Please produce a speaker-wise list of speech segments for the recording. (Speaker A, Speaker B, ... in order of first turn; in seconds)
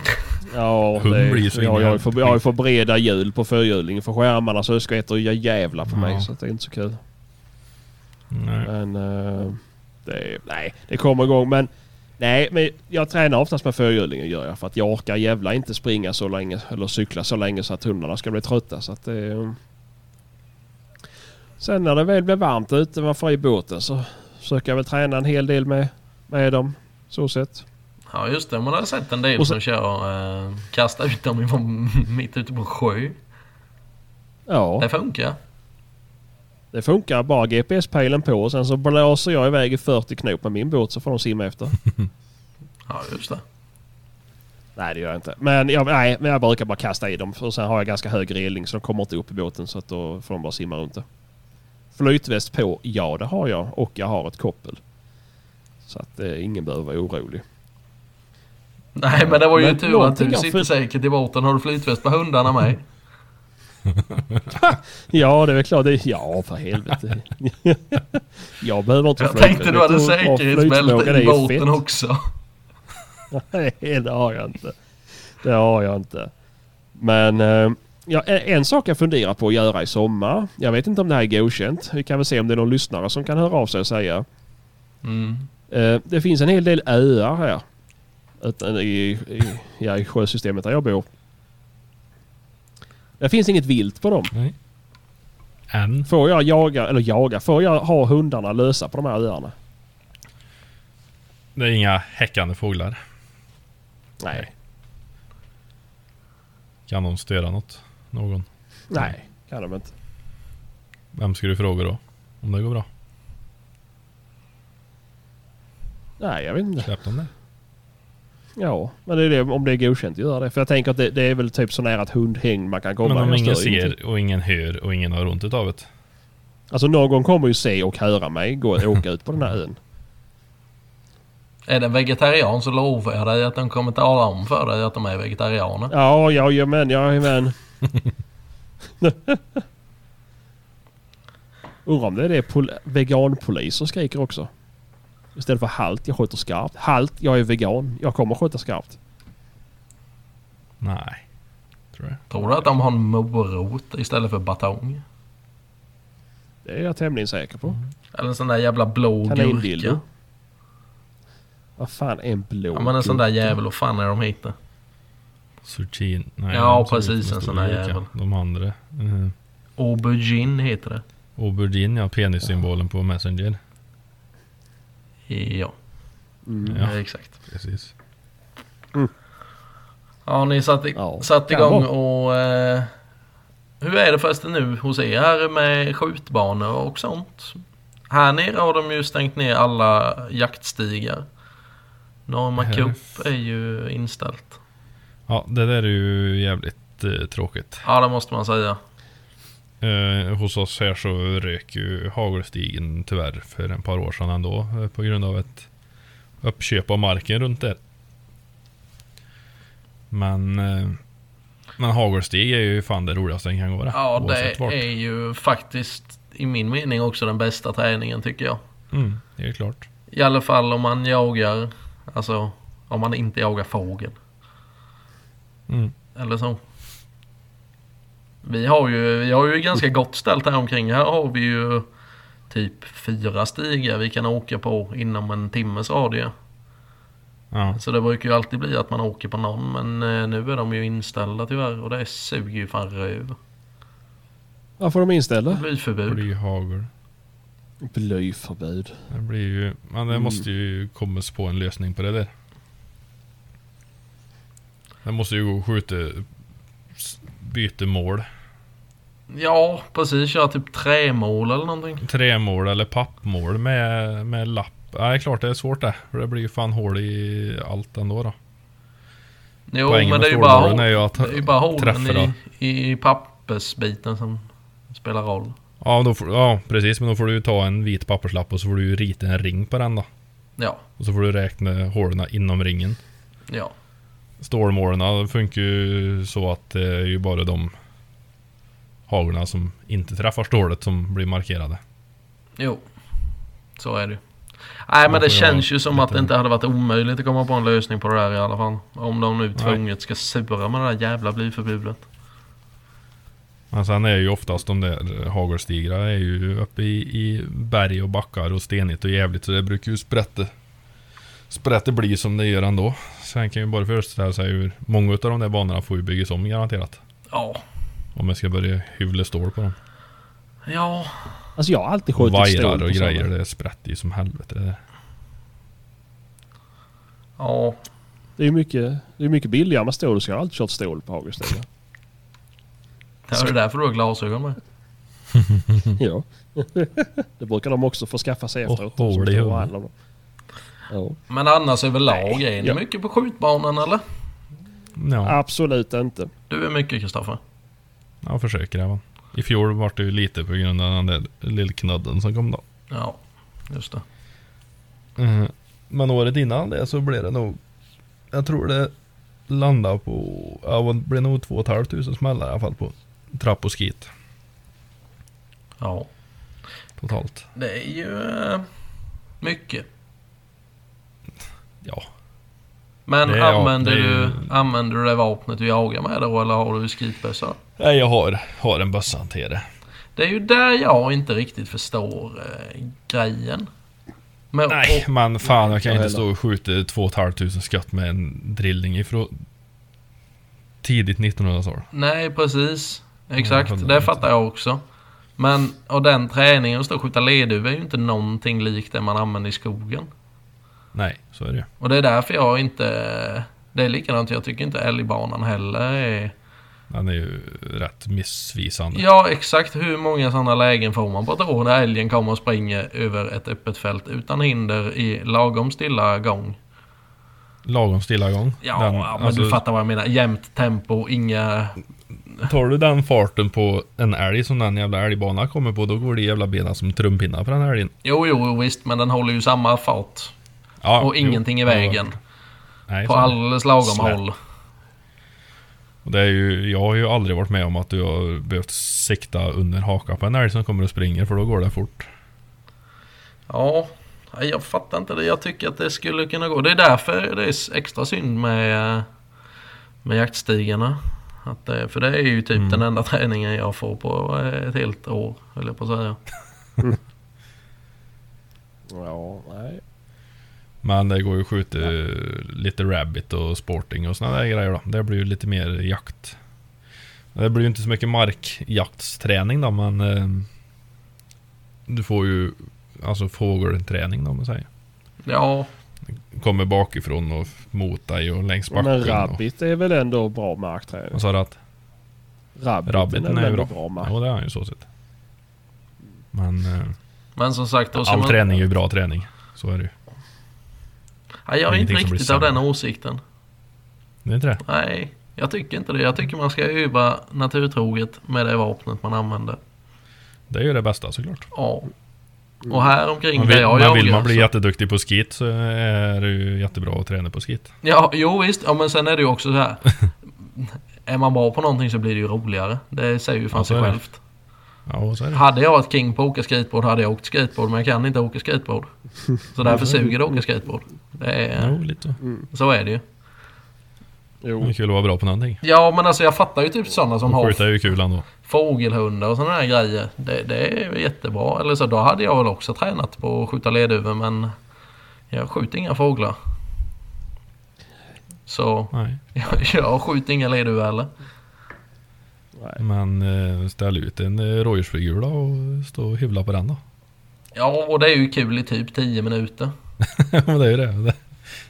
Speaker A: 0.5-7.0, 8.6-19.6, 21.6-27.6, 34.5-34.9, 36.7-41.8, 44.8-51.0, 51.9-54.8, 55.9-57.4, 59.2-60.7, 64.5-71.8, 73.3-76.3, 77.0-84.3, 85.7-87.6, 88.4-91.1, 93.2-94.3, 96.1-99.5, 104.2-104.5, 108.9-109.9, 116.2-116.9, 118.6-123.9, 126.7-129.8, 135.9-137.6, 139.0-139.6, 141.8-144.5, 145.4-149.0, 156.7-157.8, 159.3-160.0, 161.8-163.6, 176.5-176.8, 181.0-181.9, 244.8-245.6, 247.8-249.1, 250.1-250.4, 321.6-323.3, 328.4-331.7, 336.0-339.9, 340.9-341.2, 342.1-342.8, 345.2-346.3, 385.8-386.2, 458.9-459.8, 478.7-481.2, 482.6-484.1, 522.2-522.5, 524.4-524.7, 542.6-542.8
Speaker B: 1.0-2.4, 5.9-6.3, 8.3-8.7, 63.9-64.7, 95.7-96.1, 101.5-103.0, 106.9-109.1, 111.1-112.9, 116.8-117.3, 123.0-125.9, 150.8-151.2, 151.9-152.2, 165.7-169.3, 171.4-173.6, 176.7-177.0, 177.5-177.9, 192.6-193.0, 195.3-197.8, 199.8-205.7, 206.4-207.8, 210.1-211.0, 211.8-214.9, 218.9-219.9, 225.7-225.9, 237.5-237.8, 246.1-246.9, 249.1-252.3, 255.0-256.3, 256.9-258.3, 262.0-268.4, 269.9-272.3, 275.8-280.1, 281.0-283.0, 284.4-287.7, 289.1-291.8, 295.1-296.3, 303.7-310.5, 311.5-317.0, 318.2-319.8, 322.2-324.8, 335.4-336.0, 338.7-339.7, 345.0-345.4, 348.2-352.6, 355.2-357.6, 358.3-358.9, 359.5-364.1, 367.0-367.5, 371.8-372.1, 373.2-374.5, 377.8-379.6, 384.7-389.4, 390.8-391.9, 393.4-394.2, 400.9-401.7, 406.9-409.1, 417.6-419.6, 422.4-427.9, 430.8-432.1, 432.9-434.2, 436.1-442.1, 452.6-452.8, 460.8-466.4, 467.4-470.5, 471.9-474.7, 476.3-479.4, 481.1-481.6, 482.9-484.9, 486.3-487.0, 487.9-489.9, 491.7-492.6, 494.2-494.6, 500.5-501.5, 503.4-507.7, 513.5-514.0, 514.9-515.4, 519.6-520.0, 521.6-522.2, 524.6-525.6, 527.3-528.3, 538.9-539.2, 542.8-546.8, 550.0-551.2
Speaker C: 28.1-33.2, 34.8-35.4, 42.9-43.4, 59.0-62.9, 69.2-72.3, 85.0-85.5, 131.7-135.9, 152.3-155.0, 158.1-160.0, 162.7-164.6, 166.5-168.1, 169.8-171.0, 175.3-175.7, 176.8-177.4, 180.3-182.9, 183.8-191.3, 192.3-194.6, 197.8-198.8, 213.9-218.6, 220.1-224.2, 226.2-226.6, 228.4-231.9, 232.5-236.3, 237.8-243.4, 245.5-246.2, 259.3-262.0, 269.7-275.6, 280.6-280.9, 283.5-283.7, 292.6-292.8, 293.8-294.2, 294.8-302.0, 317.3-317.6, 320.6-321.5, 327.4-327.8, 333.3-334.6, 341.3-344.0, 346.5-347.4, 352.9-354.0, 365.8-366.1, 367.6-368.7, 369.4-369.9, 373.1-377.6, 380.2-383.7, 384.5-385.1, 391.9-394.8, 395.4-400.1, 401.8-406.3, 408.9-416.6, 418.6-421.8, 428.0-430.3, 431.0-432.2, 433.1-434.4, 443.5-449.1, 450.0-456.2, 475.2-475.7, 487.4-488.6, 491.5-493.2, 494.6-499.6, 501.5-501.9, 502.6-504.5, 507.8-514.2, 515.3-521.8, 522.5-523.0, 525.6-527.7, 528.4-534.5, 535.3-536.4, 538.5-541.1, 547.5-549.7